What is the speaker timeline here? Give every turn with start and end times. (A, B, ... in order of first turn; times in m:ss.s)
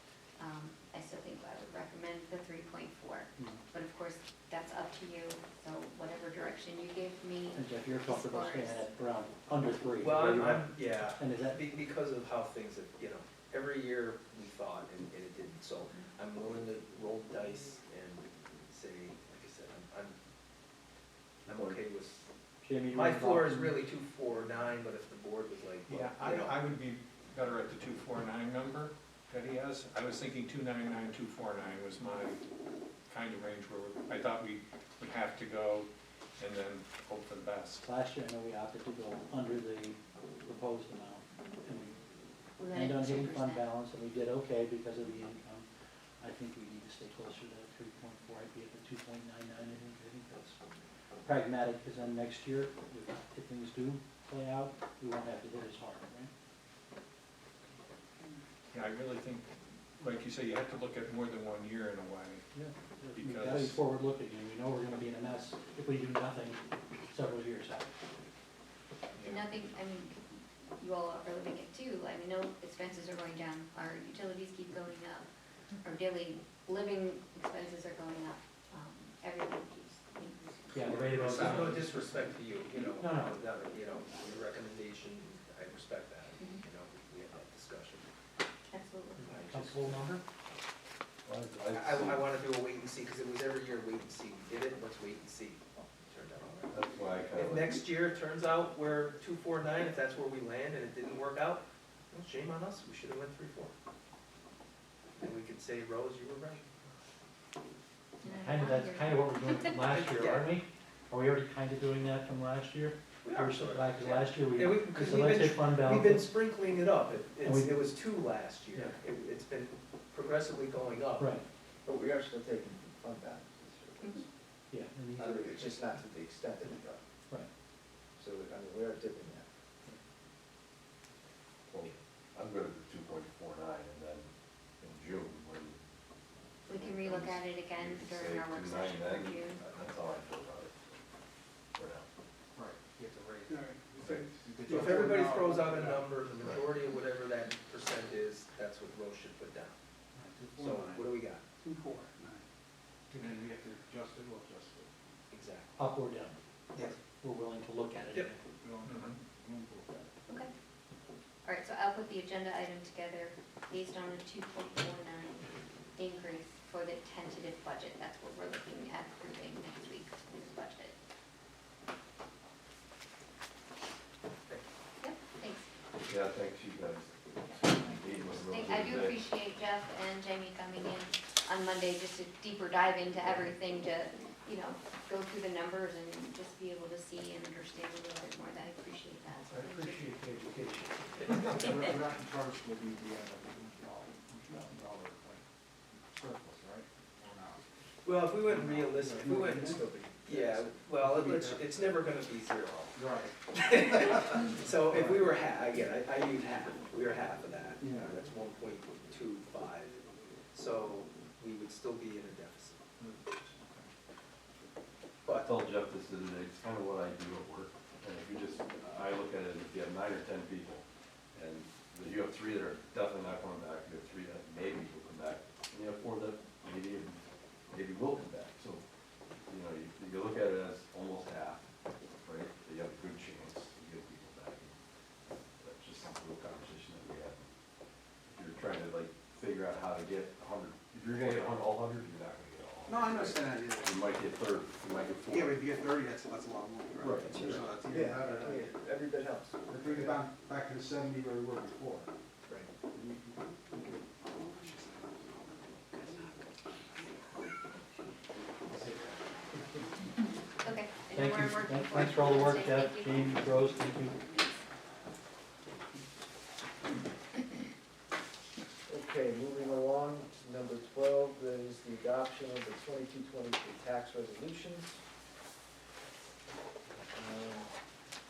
0:00.4-0:08.8 A
0:03.4-0:03.6 B
0:07.5-0:11.6 B
0:10.0-0:20.2 C
0:21.4-0:22.2 C
0:21.5-0:21.8 D
0:22.6-0:23.8 B
0:22.9-0:26.6 C
0:25.8-0:32.4 E
0:33.1-0:37.8 E
0:37.8-0:42.0 B
0:42.6-0:43.6 A
0:42.7-0:45.7 B
0:46.2-0:50.6 B
0:51.2-0:56.3 B
0:58.7-0:59.5 E
1:00.0-1:02.4 E
1:02.5-1:07.9 B
1:03.1-1:03.8 E
1:09.1-1:09.4 C
1:09.2-1:15.3 A
1:15.8-1:20.9 A
1:20.7-1:21.9 B
1:20.8-1:21.7 E
1:21.2-1:28.1 C
1:22.7-1:23.4 B
1:28.7-1:29.3 A
1:29.2-1:30.2 B
1:29.2-1:30.1 C
1:31.2-1:32.2 F
1:31.7-1:36.7 C
1:36.7-1:37.8 F
1:37.3-1:43.7 C
1:45.2-1:47.0 C
1:48.2-1:50.0 A
1:48.2-1:56.3 B
1:50.0-1:50.6 C
1:53.2-2:01.3 C
1:57.4-1:57.8 B
2:01.2-2:01.4 B
2:01.8-2:04.3 D
2:04.7-2:05.7 B
2:05.2-2:07.0 D
2:08.2-2:09.5 D
2:11.7-2:15.8 F
2:16.7-2:19.6 A
2:16.7-2:21.0 F
2:21.7-2:22.0 F
2:22.5-2:26.1 G
2:24.5-2:29.8 C
2:30.2-2:31.1 G
2:30.6-2:31.4 C
2:31.7-2:32.4 G
2:33.1-2:34.9 G
2:35.3-2:35.8 C
2:35.8-2:36.4 B
2:37.0-2:38.4 B
2:38.6-2:40.1 G
2:38.8-2:39.2 E
2:41.4-2:50.9 A
2:55.0-2:55.7 A
2:55.9-2:59.2 F
2:58.3-3:10.1 A
3:09.6-3:11.5 E
3:11.5-3:17.6 G
3:18.0-3:30.0 C
3:18.4-3:22.0 G
3:23.0-3:25.4 G
3:27.8-3:28.2 G
3:30.5-3:32.8 C
3:33.0-3:33.5 E
3:35.3-3:48.8 F
3:49.4-3:51.7 F
3:52.2-3:54.8 F
3:55.3-3:57.4 F
3:58.3-4:05.6 F
4:02.9-4:04.0 G
4:05.3-4:08.7 G
4:07.0-4:07.6 F
4:07.1-4:10.2 D
4:09.7-4:12.1 G
4:12.9-4:16.2 G
4:18.7-4:19.6 G
4:20.6-4:23.4 A
4:21.1-4:24.2 B
4:28.9-4:35.0 D
4:37.1-4:37.7 D